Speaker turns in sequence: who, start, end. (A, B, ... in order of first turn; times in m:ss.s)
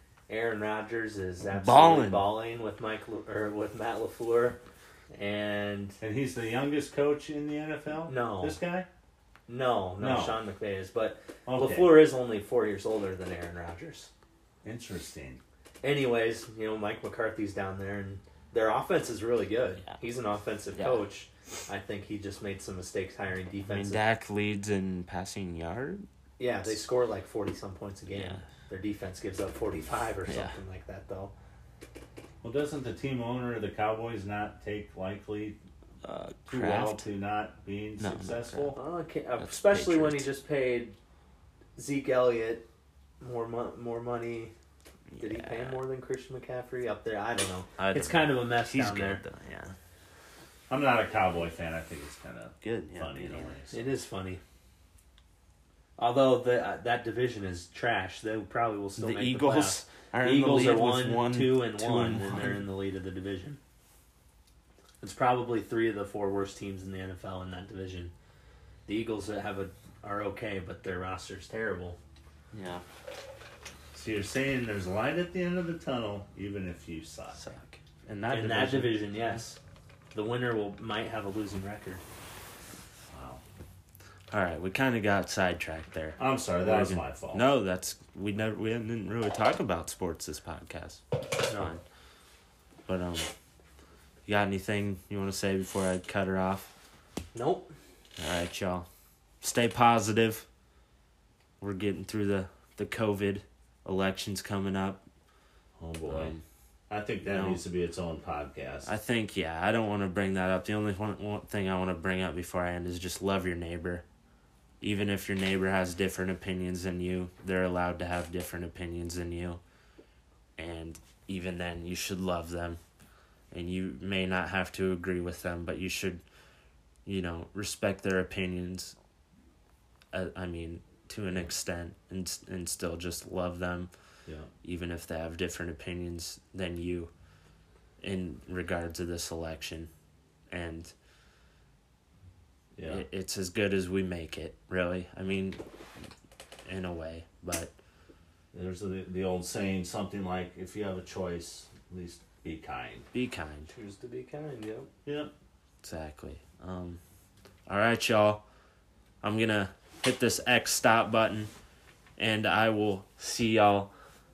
0:00.3-0:04.6 A
0:01.5-0:02.4 B
0:05.1-0:06.0 A
0:06.0-0:08.9 C
0:08.1-0:08.6 A
0:09.5-0:14.1 A
0:10.0-0:10.4 C
0:11.5-0:12.1 C
0:14.6-0:15.4 C
0:15.8-0:24.0 A
0:20.8-0:21.0 B
0:23.6-0:26.1 B
0:26.4-0:31.3 A
0:28.1-0:28.4 B
0:30.3-0:30.6 B
0:32.4-0:35.6 C
0:36.0-0:37.0 B
0:36.5-0:38.8 C
0:38.0-0:38.8 B
0:38.8-0:41.0 A
0:39.4-0:40.3 B
0:41.8-0:42.7 A
0:43.2-0:44.5 A
0:45.1-0:45.8 B
0:45.2-0:49.2 A
0:47.8-0:49.8 B
0:50.7-0:53.7 C
0:52.6-0:53.6 B
0:53.7-0:54.4 A
0:56.0-1:03.6 A
0:59.0-1:02.7 B
1:05.0-1:08.1 A
1:08.9-1:12.0 A
1:12.5-1:12.8 B
1:13.9-1:17.4 C
1:17.4-1:17.8 B
1:18.0-1:19.2 C
1:18.3-1:19.6 A
1:20.1-1:22.0 A
1:23.1-1:23.4 C
1:24.3-1:31.8 B
1:26.2-1:27.4 C
1:31.5-1:31.8 A
1:32.9-1:33.3 B
1:34.2-1:36.7 B
1:37.3-1:37.7 A
1:38.2-1:38.9 B
1:39.4-1:40.5 B
1:41.6-1:45.0 B
1:45.8-1:46.3 C
1:46.1-1:46.4 B
1:46.9-1:48.9 C
1:47.2-1:47.6 B
1:48.9-1:54.0 B
1:54.8-1:59.6 B
2:00.6-2:02.8 B
2:03.5-2:06.2 B
2:07.0-2:09.0 B
2:10.1-2:13.9 B
2:14.6-2:17.1 B
2:18.0-2:19.9 B
2:20.5-2:20.9 B
2:22.8-2:23.0 C
2:22.9-2:25.6 B
2:26.6-2:27.7 B
2:28.5-2:33.1 C
2:33.1-2:33.7 B
2:33.7-2:34.9 A
2:35.1-2:35.3 C
2:35.8-2:37.0 B
2:37.7-2:38.4 B
2:39.2-2:41.5 B
2:42.2-2:43.9 B